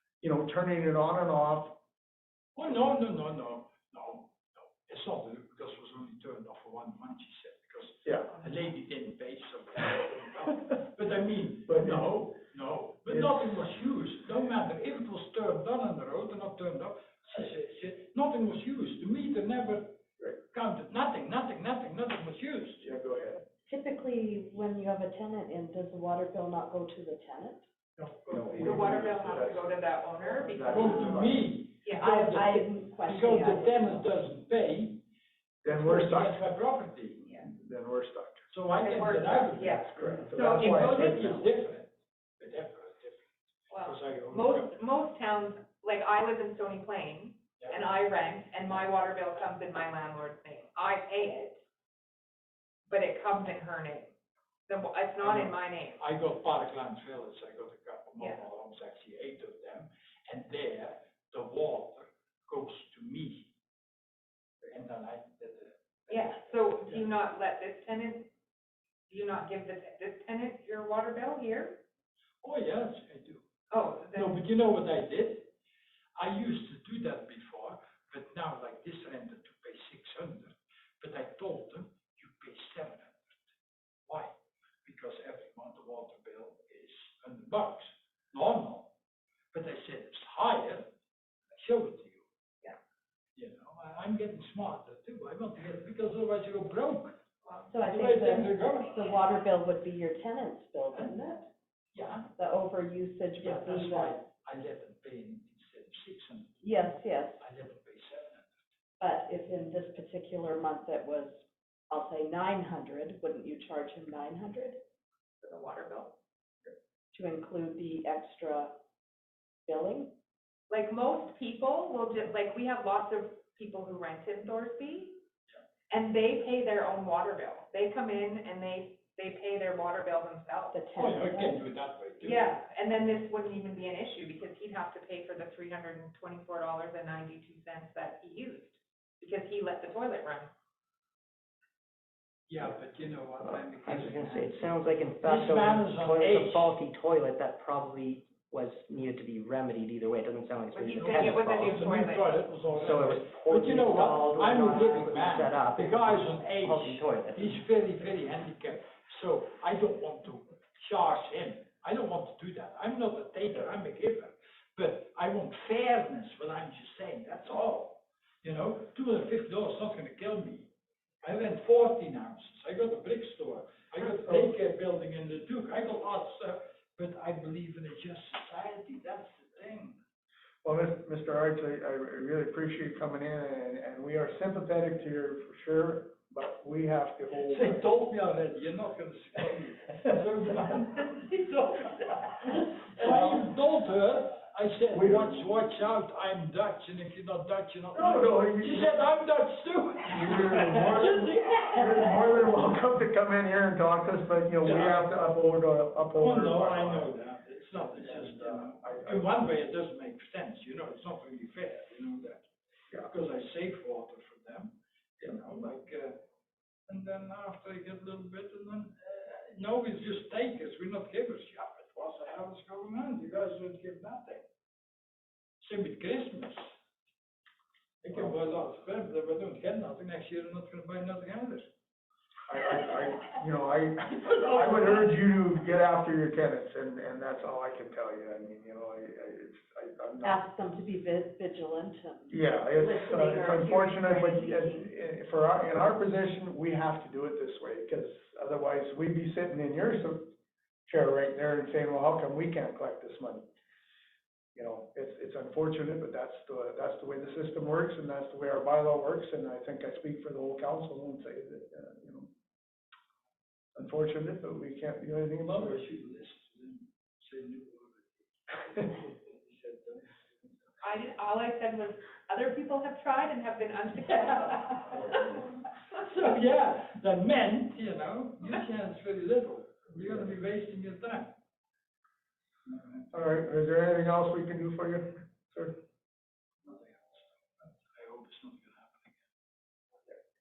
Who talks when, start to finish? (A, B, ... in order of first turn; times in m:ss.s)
0:00.2-0:01.8 A
0:02.6-0:20.0 B
0:11.7-0:12.2 A
0:13.1-0:13.4 A
0:20.5-0:22.8 B
0:22.8-0:23.4 A
0:23.7-0:27.6 C
0:28.0-0:31.4 A
0:28.3-0:29.4 D
0:28.6-0:32.1 E
0:30.7-0:35.0 B
0:30.8-0:31.2 C
0:32.0-0:34.0 C
0:35.6-0:36.5 A
0:35.7-0:37.3 B
0:37.2-0:37.5 E
0:37.4-0:38.5 A
0:38.5-0:43.2 B
0:38.7-0:41.3 E
0:39.5-0:41.5 A
0:43.7-0:51.6 E
0:43.8-0:44.8 B
0:47.6-0:47.8 B
0:52.9-0:54.1 E
0:54.7-0:56.0 E
0:55.2-1:03.5 B
1:04.7-1:07.1 B
1:06.1-1:08.3 E
1:09.1-1:11.8 E
1:12.4-1:13.4 B
1:13.7-1:14.4 E
1:14.1-1:15.5 B
1:16.2-1:23.5 B
1:24.1-1:24.3 B
1:24.8-1:28.9 B
1:29.5-1:30.9 B
1:31.5-1:32.2 B
1:33.4-1:37.2 B
1:37.7-1:41.5 C
1:37.8-1:39.2 B
1:41.9-1:42.3 B
1:42.4-1:44.2 C
1:43.4-1:46.6 B
1:46.6-1:47.4 C
1:47.4-1:48.5 B
1:49.0-1:54.8 C
1:55.4-1:56.1 E
1:57.1-1:58.7 C
1:59.7-2:00.1 C
2:00.7-2:05.2 E
2:05.9-2:10.8 E
2:10.7-2:11.6 C
2:11.0-2:12.6 B
2:12.2-2:20.5 E
2:22.5-2:26.7 B
2:23.8-2:31.8 D
2:30.7-2:32.3 E
2:31.0-2:50.7 B
2:32.7-2:37.6 D
2:51.2-3:00.0 B
2:54.1-2:54.5 A
3:00.6-3:07.8 A
3:07.3-3:11.8 B
3:12.9-3:21.3 B
3:13.1-3:13.4 A
3:14.9-3:15.5 A
3:17.9-3:18.9 A
3:20.1-3:27.1 A
3:21.6-3:22.4 C
3:24.6-3:25.1 B
3:26.1-3:32.5 B
3:28.0-3:29.3 A
3:33.0-3:36.2 B
3:36.9-3:44.4 B
3:45.6-3:46.6 B
3:48.0-3:51.7 B
3:52.5-4:00.4 A
4:00.2-4:04.9 C
4:02.3-4:10.3 A
4:10.9-4:13.5 A
4:14.6-4:22.3 A
4:23.8-4:25.8 A
4:25.5-4:30.0 B
4:30.8-4:35.4 E
4:35.8-4:41.3 B
4:42.7-4:43.0 B
4:43.1-4:45.8 A
4:46.7-4:49.2 B